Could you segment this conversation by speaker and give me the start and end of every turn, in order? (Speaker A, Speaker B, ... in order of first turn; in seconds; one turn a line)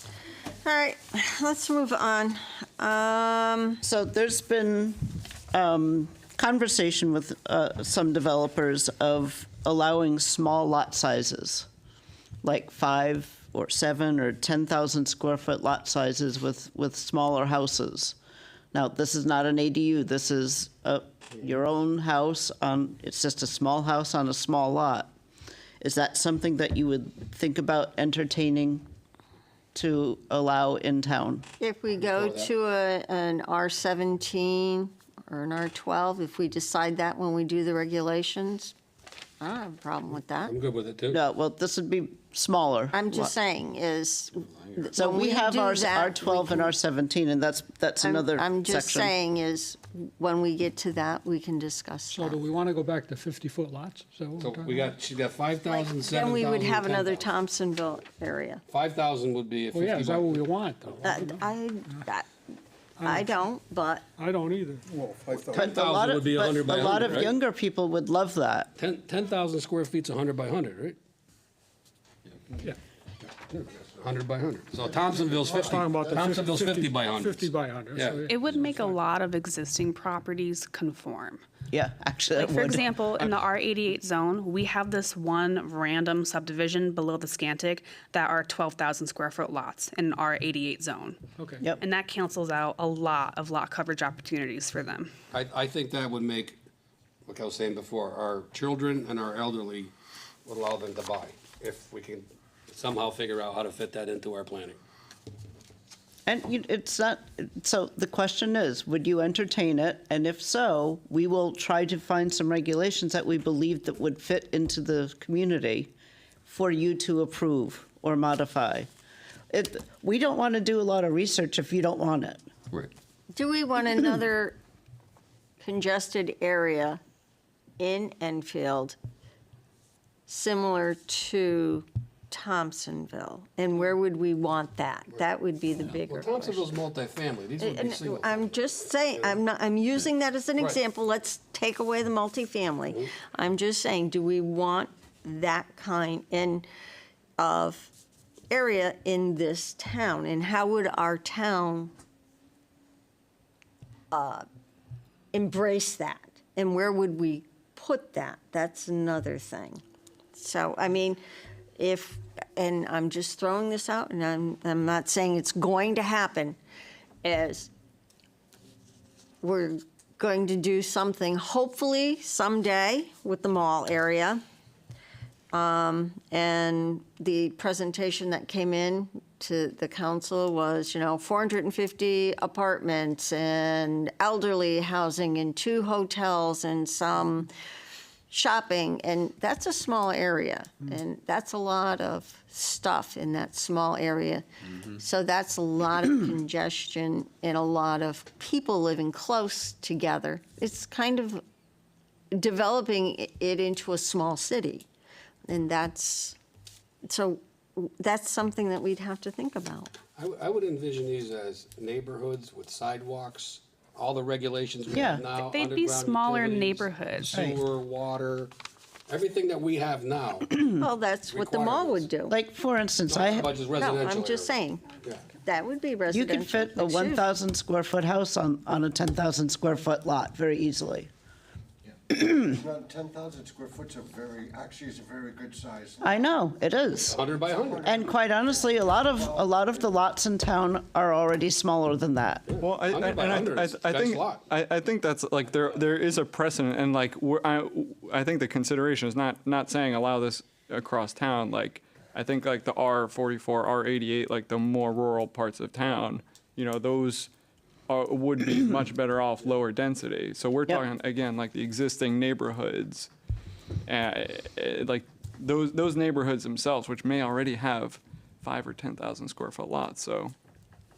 Speaker A: 0.6-3.8
Speaker B: 3.8-11.7
Speaker B: 12.4-18.1
Speaker B: 18.7-25.1
Speaker B: 25.8-28.9
Speaker B: 29.7-31.4
Speaker A: 31.6-38.7
Speaker C: 31.9-32.5
Speaker A: 39.4-40.5
Speaker C: 40.4-41.2
Speaker B: 41.1-43.3
Speaker A: 42.9-46.7
Speaker B: 44.9-49.1
Speaker A: 48.0-52.4
Speaker D: 52.1-54.9
Speaker C: 54.4-57.4
Speaker A: 55.7-58.6
Speaker C: 58.7-60.5
Speaker D: 59.7-62.0
Speaker A: 61.0-62.3
Speaker D: 63.0-63.4
Speaker A: 63.0-64.0
Speaker D: 64.2-65.4
Speaker C: 65.4-67.3
Speaker B: 65.5-68.7
Speaker C: 68.8-71.0
Speaker C: 73.5-78.7
Speaker E: 75.3-76.0
Speaker D: 75.6-78.8
Speaker F: 78.3-81.4
Speaker B: 81.7-83.0
Speaker F: 82.3-95.1
Speaker C: 95.3-96.6
Speaker C: 97.2-99.9
Speaker C: 100.4-104.8
Speaker B: 106.2-115.9
Speaker B: 116.5-118.9
Speaker B: 119.5-122.4
Speaker A: 123.3-124.6
Speaker A: 125.6-127.0
Speaker A: 127.8-129.0
Speaker A: 130.3-136.6
Speaker C: 135.9-138.5
Speaker A: 137.6-146.7
Speaker C: 139.1-139.4
Speaker A: 147.4-147.9
Speaker A: 148.5-151.9
Speaker A: 154.1-154.4
Speaker A: 155.3-159.8
Speaker A: 160.3-161.2
Speaker A: 161.8-166.6
Speaker A: 167.2-167.7
Speaker A: 169.4-174.4
Speaker A: 175.5-187.5
Speaker A: 188.3-201.4
Speaker A: 202.3-204.9
Speaker A: 205.5-206.4
Speaker A: 207.1-209.9
Speaker C: 210.2-218.5
Speaker B: 214.9-215.2
Speaker F: 215.3-217.4
Speaker C: 219.1-220.7
Speaker A: 220.8-222.3
Speaker C: 221.3-222.1
Speaker B: 222.3-223.5
Speaker C: 223.1-225.2
Speaker A: 223.8-224.8
Speaker A: 225.4-227.3
Speaker B: 226.1-231.1
Speaker E: 232.0-236.2
Speaker B: 236.0-237.2
Speaker C: 237.1-238.0
Speaker E: 237.4-238.0
Speaker B: 237.8-242.4
Speaker E: 239.0-239.5
Speaker C: 242.5-244.4
Speaker G: 242.6-257.3
Speaker G: 257.9-263.1
Speaker G: 263.9-270.3